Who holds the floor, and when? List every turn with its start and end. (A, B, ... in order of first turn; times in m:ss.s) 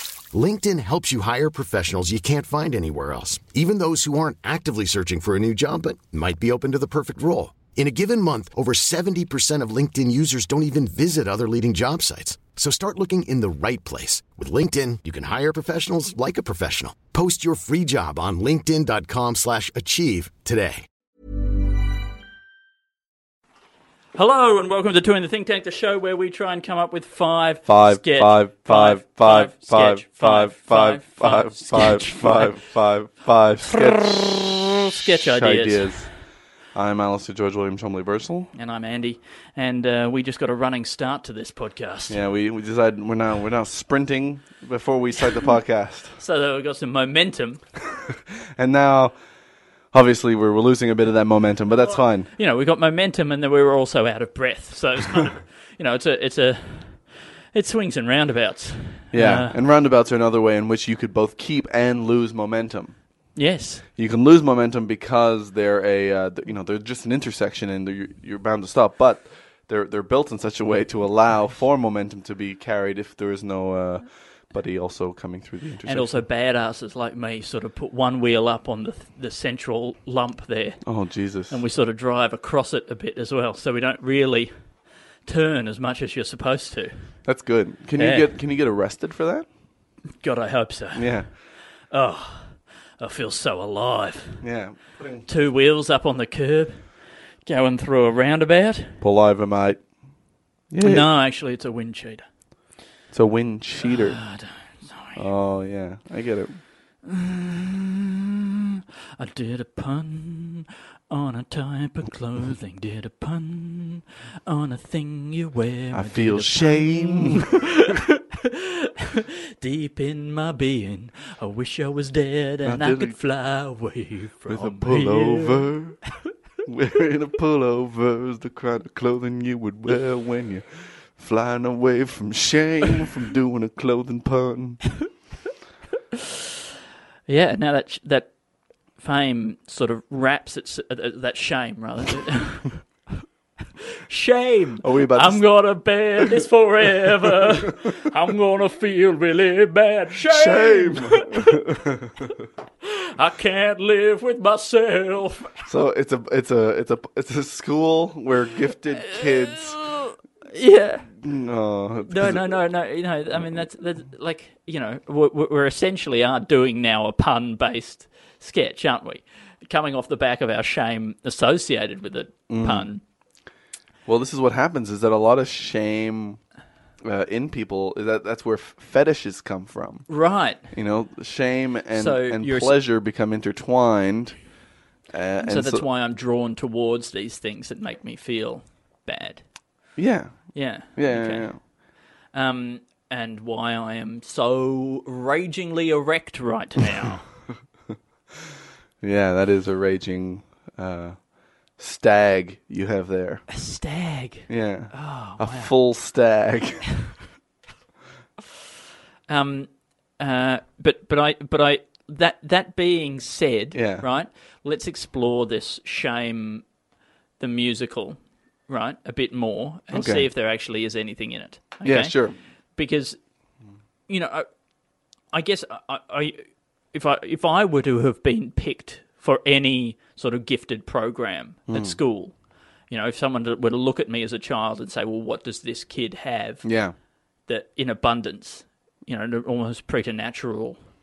0:00.3-0:20.8 A
0:24.1-0:32.6 B
0:27.6-0:36.1 C
0:33.7-0:36.0 B
0:36.7-0:38.5 C
0:38.5-0:42.2 B
0:42.1-0:46.2 C
0:46.2-0:47.6 B
0:48.6-0:49.1 C
0:49.9-0:52.3 C
0:51.8-0:59.6 B
0:59.1-1:03.0 C
1:03.3-1:03.8 B
1:04.0-1:16.2 C
1:15.8-1:20.8 B
1:20.8-1:21.6 C
1:21.5-1:24.5 B
1:25.2-1:27.1 B
1:27.2-1:29.4 C
1:28.0-1:28.3 B
1:30.2-1:31.4 B
1:30.9-1:31.3 C
1:31.9-1:34.4 B
1:34.4-1:35.3 C
1:35.2-1:36.9 B
1:37.4-1:39.0 B
1:39.0-1:39.8 C
1:40.7-1:41.1 C
1:40.8-1:42.2 B
1:43.1-1:44.2 C
1:43.8-1:45.3 B
1:45.2-1:46.6 C
1:47.0-1:48.0 B
1:49.2-2:05.6 B
1:55.9-1:57.5 C
2:02.6-2:03.2 C
2:04.4-2:06.0 C
2:06.6-2:15.0 C
2:17.3-2:18.3 B
2:19.0-2:22.8 B
2:24.1-2:31.5 B
2:24.8-2:25.7 C
2:30.3-2:32.3 C
2:32.8-2:35.6 B
2:35.6-2:39.8 C
2:38.9-2:41.2 B
2:41.2-2:42.6 C
2:42.1-2:53.0 B
2:43.3-2:43.7 C
2:52.5-2:52.9 C
2:54.1-2:56.4 C
2:57.0-3:00.1 C
3:00.1-3:00.7 B
3:00.7-3:04.4 C
3:01.9-3:02.8 B
3:05.1-3:05.8 C
3:05.4-3:09.4 B
3:10.0-3:11.6 C
3:10.5-3:11.7 B
3:12.3-3:17.3 B
3:19.0-3:21.2 C
3:21.8-3:23.5 C
3:23.5-3:25.7 B
3:24.5-3:26.9 C
3:29.3-3:36.6 B
3:33.7-3:34.0 C
3:37.4-3:42.1 B
3:39.9-3:40.3 C
3:41.8-3:42.4 C
3:42.8-3:43.2 B
3:44.1-3:44.5 B
3:45.3-3:52.3 B
3:51.7-3:52.0 C
3:52.9-3:56.6 B
3:56.6-3:56.9 C
3:57.5-4:00.8 B